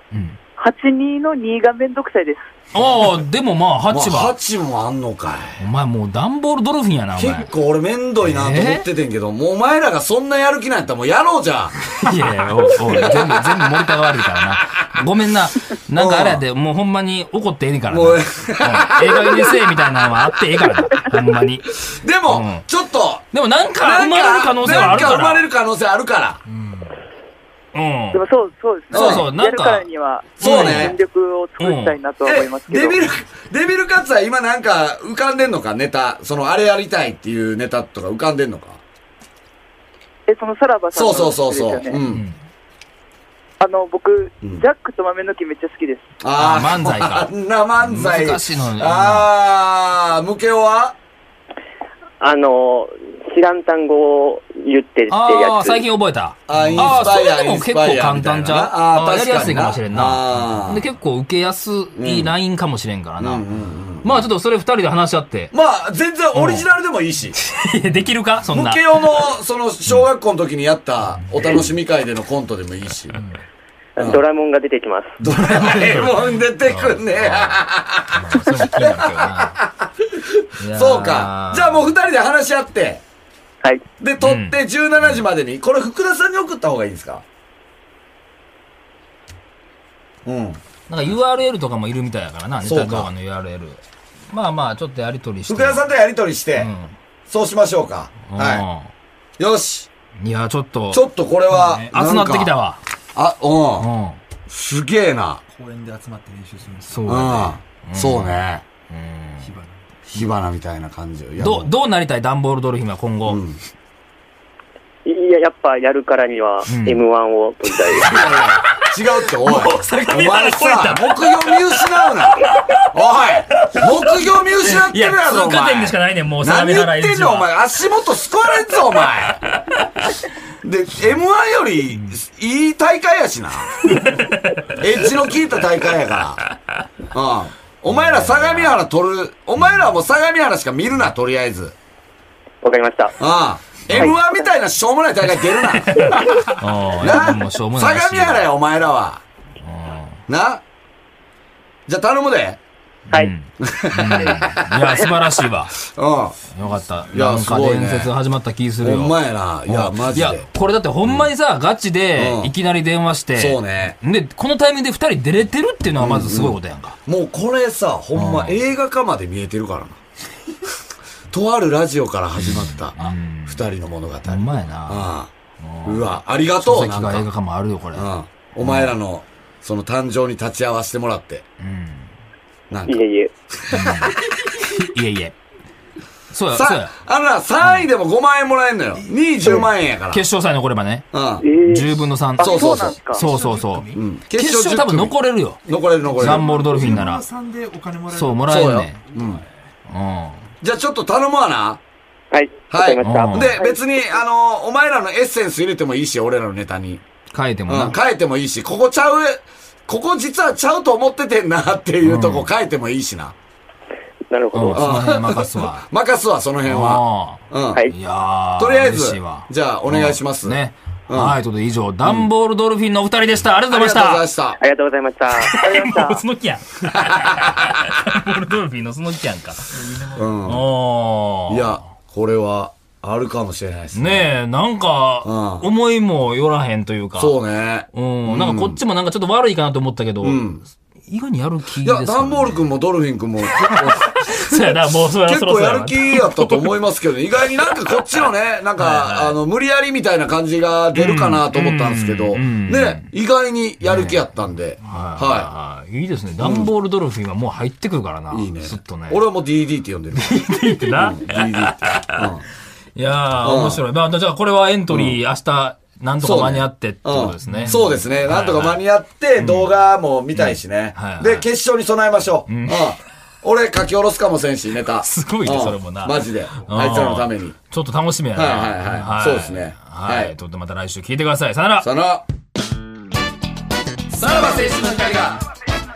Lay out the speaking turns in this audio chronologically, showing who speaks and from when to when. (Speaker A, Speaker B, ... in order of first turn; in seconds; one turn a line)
Speaker A: 0.1-0.4
Speaker B: 0.6-2.5
Speaker A: 2.7-4.3
Speaker C: 3.9-5.6
Speaker A: 5.6-7.5
Speaker C: 7.2-12.0
Speaker A: 8.2-8.8
Speaker A: 11.9-22.6
Speaker C: 12.7-13.6
Speaker C: 15.9-16.4
Speaker C: 17.9-19.6
Speaker C: 21.8-23.2
Speaker A: 23.3-25.4
Speaker C: 23.8-26.4
Speaker D: 26.4-27.0
Speaker A: 27.7-28.2
Speaker B: 28.1-33.0
Speaker A: 28.9-29.9
Speaker C: 28.9-29.2
Speaker A: 30.4-31.0
Speaker C: 30.4-31.0
Speaker A: 31.6-32.0
Speaker C: 32.2-38.8
Speaker B: 40.3-42.0
Speaker C: 40.9-42.2
Speaker A: 42.1-42.4
Speaker B: 43.6-46.1
Speaker C: 46.2-51.0
Speaker A: 46.4-49.3
Speaker E: 52.2-55.8
Speaker A: 55.1-63.4
Speaker C: 56.5-60.8
Speaker C: 62.0-62.3
Speaker C: 63.2-64.2
Speaker A: 64.0-65.5
Speaker C: 65.5-67.3
Speaker A: 66.3-66.7
Speaker A: 67.4-68.8
Speaker C: 68.5-73.2
Speaker D: 73.1-73.4
Speaker E: 74.0-75.2
Speaker C: 74.0-74.2
Speaker A: 75.2-77.6
Speaker C: 75.2-83.0
Speaker D: 75.4-76.0
Speaker A: 78.1-79.6
Speaker A: 80.6-81.9
Speaker C: 84.0-87.2
Speaker A: 84.2-84.6
Speaker C: 90.2-90.6
Speaker A: 90.9-95.8
Speaker C: 92.6-93.1
Speaker C: 95.5-96.7
Speaker A: 96.6-96.9
Speaker C: 97.3-98.7
Speaker A: 98.2-98.9
Speaker C: 99.4-99.9
Speaker A: 100.2-102.8
Speaker C: 100.9-102.5
Speaker C: 103.1-103.9
Speaker A: 103.8-104.2
Speaker C: 104.5-105.4
Speaker D: 105.5-107.2
Speaker A: 106.9-109.5
Speaker C: 107.1-108.6
Speaker D: 109.4-110.1
Speaker C: 110.1-111.7
Speaker A: 111.4-113.4
Speaker C: 113.3-113.6
Speaker E: 115.0-118.4
Speaker A: 116.7-117.0
Speaker C: 118.0-129.4
Speaker A: 118.4-121.9
Speaker A: 122.4-122.8
Speaker A: 123.6-127.5
Speaker C: 130.6-133.9
Speaker A: 134.1-134.3
Speaker C: 134.8-136.4
Speaker C: 137.1-141.7
Speaker A: 137.9-138.8
Speaker A: 139.6-139.9
Speaker E: 142.6-143.2
Speaker C: 143.2-146.2
Speaker E: 143.9-144.2
Speaker A: 145.8-148.5
Speaker C: 147.0-149.2
Speaker A: 149.6-150.2
Speaker C: 150.3-150.6
Speaker C: 151.9-152.6
Speaker A: 153.1-155.8
Speaker C: 153.6-154.7
Speaker C: 155.8-156.4
Speaker A: 156.5-167.0
Speaker C: 157.1-158.1
Speaker C: 158.8-160.4
Speaker C: 162.2-162.5
Speaker C: 163.3-164.0
Speaker C: 166.0-170.0
Speaker A: 168.1-168.6
Speaker C: 171.3-175.3
Speaker A: 172.4-173.6
Speaker A: 174.3-178.1
Speaker C: 175.8-177.3
Speaker C: 177.9-181.4
Speaker A: 178.6-178.9
Speaker A: 181.6-182.1
Speaker C: 182.7-184.2
Speaker E: 182.9-183.3
Speaker A: 183.7-185.3
Speaker A: 186.3-186.9
Speaker C: 186.5-190.2
Speaker D: 188.9-189.3
Speaker A: 189.4-191.1
Speaker C: 191.1-191.4
Speaker E: 191.4-191.9
Speaker A: 191.6-195.6
Speaker C: 192.4-193.0
Speaker B: 192.4-193.2
Speaker D: 193.1-194.0
Speaker C: 193.9-197.0
Speaker D: 196.0-199.5
Speaker A: 196.2-197.2
Speaker A: 198.1-199.0
Speaker C: 198.5-199.4
Speaker A: 199.9-200.4
Speaker C: 200.6-201.8
Speaker E: 202.3-203.6
Speaker C: 202.7-207.0
Speaker A: 203.0-203.5
Speaker A: 207.3-208.0
Speaker C: 207.7-213.3
Speaker A: 212.0-212.5
Speaker E: 214.3-214.9
Speaker A: 214.5-215.9
Speaker C: 214.7-217.8
Speaker A: 216.6-224.2
Speaker C: 218.6-220.6
Speaker C: 221.1-221.4
Speaker C: 222.0-222.3
Speaker C: 223.7-224.6
Speaker E: 224.6-226.0
Speaker A: 225.3-229.7
Speaker B: 225.6-226.2
Speaker C: 226.9-227.4
Speaker D: 229.7-230.4
Speaker C: 230.2-230.7
Speaker A: 230.4-231.8
Speaker C: 231.5-234.3
Speaker A: 233.9-237.3
Speaker C: 235.2-235.7
Speaker C: 237.2-238.8
Speaker A: 237.9-240.4
Speaker C: 240.2-240.6
Speaker A: 241.1-242.7
Speaker C: 241.8-255.5
Speaker A: 243.8-246.7
Speaker A: 248.8-249.4
Speaker A: 250.9-253.1
Speaker A: 253.8-254.2
Speaker A: 254.8-259.2
Speaker C: 256.4-256.7
Speaker C: 258.3-262.4
Speaker A: 260.1-262.3
Speaker A: 262.9-268.8
Speaker C: 263.4-263.8
Speaker C: 264.9-265.2
Speaker C: 266.2-277.6
Speaker A: 269.4-269.7
Speaker A: 270.3-271.5
Speaker A: 272.5-272.9
Speaker A: 275.0-281.9
Speaker C: 278.3-280.3
Speaker C: 281.8-282.2
Speaker C: 284.1-285.4